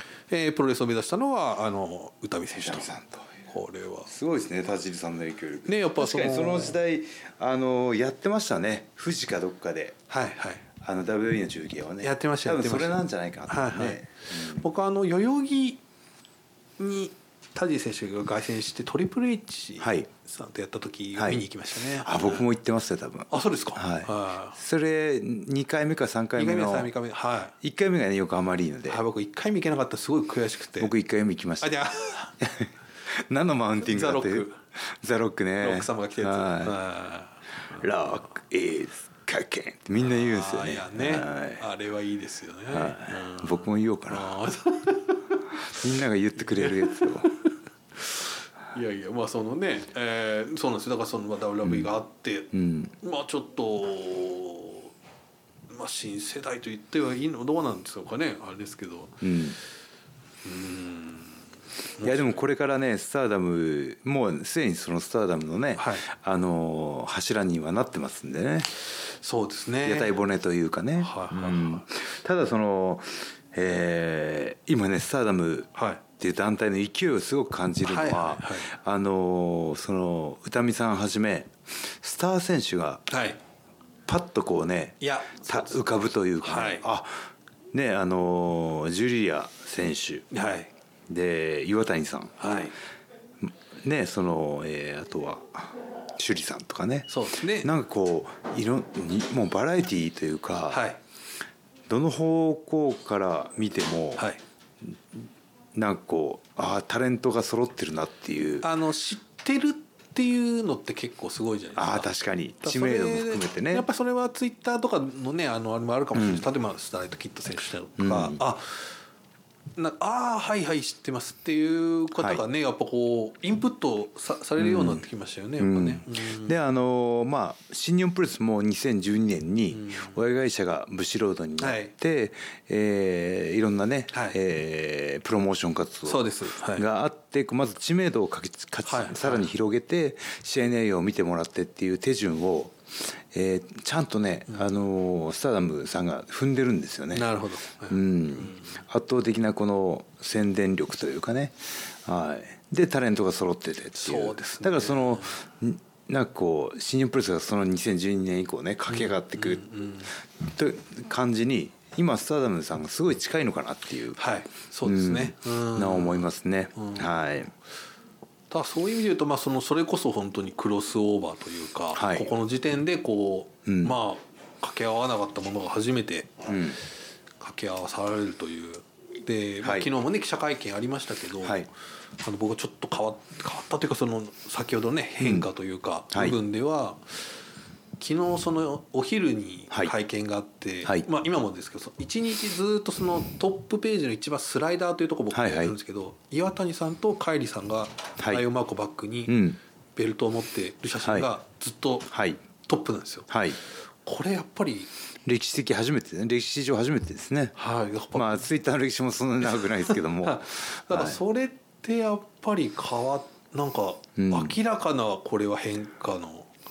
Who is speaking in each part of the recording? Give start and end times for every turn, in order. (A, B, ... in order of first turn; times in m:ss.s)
0:00.3-0:02.9 A
0:02.6-0:03.3 B
0:03.5-0:04.1 A
0:04.1-0:10.0 B
0:05.6-0:06.8 A
0:10.1-0:10.6 A
0:10.8-0:14.6 B
0:12.0-0:15.8 A
0:16.8-0:22.5 A
0:19.8-0:20.1 B
0:21.2-0:21.4 B
0:21.9-0:26.9 B
0:23.3-0:24.6 A
0:26.4-0:27.5 A
0:27.6-0:29.0 B
0:28.9-0:30.9 A
0:30.8-0:31.8 B
0:31.6-0:32.3 A
0:32.4-0:36.8 B
0:33.8-0:34.6 A
0:35.6-0:38.3 A
0:37.8-0:41.6 B
0:40.0-0:45.4 A
0:42.7-0:44.4 B
0:45.7-0:47.3 B
0:46.4-0:47.4 A
0:48.0-0:54.9 A
0:51.6-0:51.9 B
0:52.5-0:52.9 B
0:55.7-0:59.2 A
0:59.2-0:59.6 B
1:00.4-1:01.4 A
1:02.0-1:02.4 A
1:02.0-1:08.7 B
1:05.8-1:06.1 A
1:09.0-1:10.2 A
1:09.8-1:23.1 B
1:11.0-1:11.9 A
1:15.8-1:16.0 A
1:17.8-1:18.7 A
1:23.1-1:23.4 A
1:24.1-1:27.1 B
1:25.0-1:26.8 A
1:27.7-1:30.3 B
1:30.3-1:30.7 A
1:31.1-1:32.5 B
1:32.4-1:32.7 A
1:33.4-1:40.8 B
1:37.1-1:37.7 A
1:40.7-1:41.0 A
1:41.9-1:44.2 B
1:44.8-1:45.2 B
1:45.7-1:48.6 B
1:48.6-1:52.1 A
1:51.8-1:53.9 B
1:52.6-1:58.8 A
1:56.1-1:56.4 B
1:58.0-1:58.4 B
1:59.8-2:06.5 A
2:02.2-2:02.4 B
2:04.6-2:05.0 B
2:05.6-2:22.8 B
2:09.7-2:10.2 A
2:11.6-2:11.9 A
2:14.1-2:14.4 A
2:16.0-2:16.9 A
2:18.8-2:19.5 A
2:23.3-2:27.3 B
2:27.1-2:28.8 A
2:27.9-2:39.6 B
2:34.0-2:35.4 A
2:38.9-2:40.1 A
2:40.4-2:44.2 B
2:44.2-2:47.1 A
2:44.8-2:47.5 B
2:48.5-2:56.4 A
2:51.9-2:52.3 B
2:53.6-2:54.0 B
2:56.5-2:56.8 B
2:57.4-3:01.7 A
2:59.6-2:59.9 B
3:02.2-3:07.1 A
3:05.2-3:05.5 B
3:06.1-3:06.4 B
3:08.0-3:19.4 A
3:15.3-3:15.7 B
3:18.2-3:18.4 B
3:19.3-3:19.6 B
3:20.0-3:22.1 A
3:21.0-3:21.3 B
3:22.1-3:22.4 B
3:22.6-3:23.3 A
3:23.3-3:23.6 B
3:24.0-3:24.9 A
3:25.2-3:27.5 B
3:27.6-3:28.4 A
3:28.1-3:31.2 B
3:29.5-3:36.5 A
3:34.2-3:34.6 B